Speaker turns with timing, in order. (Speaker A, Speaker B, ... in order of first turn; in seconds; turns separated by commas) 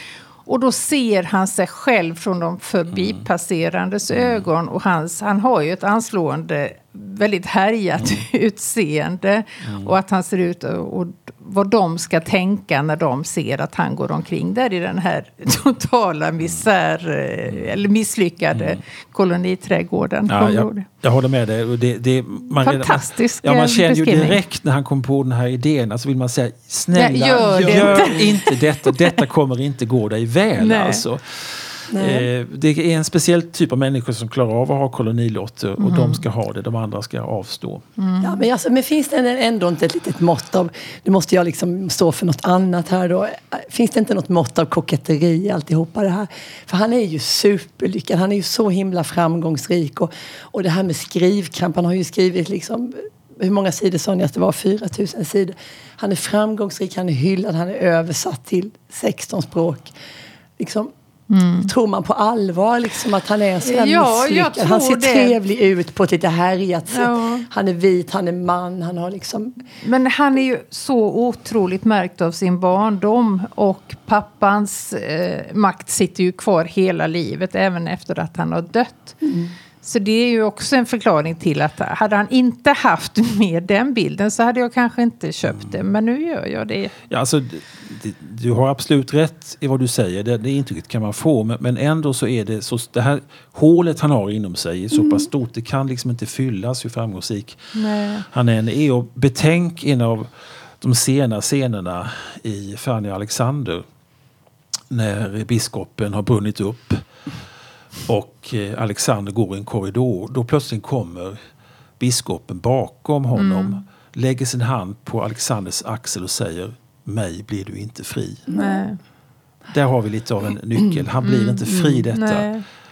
Speaker A: 0.4-20.9, Speaker B: 2.9-3.3, Speaker B: 4.1-4.5, Speaker B: 9.6-9.9, Speaker B: 17.5-17.8, Speaker B: 18.5-18.8, Speaker B: 20.3-37.8, Speaker A: 22.5-24.4, Speaker A: 26.9-29.1, Speaker C: 27.4-28.3, Speaker A: 30.6-31.0, Speaker C: 31.9-32.3, Speaker A: 35.8-36.2, Speaker A: 38.0-38.4, Speaker C: 38.2-59.9, Speaker C: 60.6-60.9, Speaker A: 61.3-61.7, Speaker C: 61.6-69.6, Speaker A: 63.6-65.4, Speaker A: 66.9-67.5, Speaker A: 69.8-79.2, Speaker C: 79.2-79.5, Speaker A: 79.8-86.9, Speaker B: 87.1-103.8, Speaker A: 97.7-98.2, Speaker B: 104.9-107.0, Speaker B: 108.0-111.4, Speaker B: 112.0-118.5, Speaker A: 113.3-113.8, Speaker C: 118.5-118.8, Speaker A: 118.5-119.0, Speaker B: 119.7-122.5, Speaker A: 121.2-122.6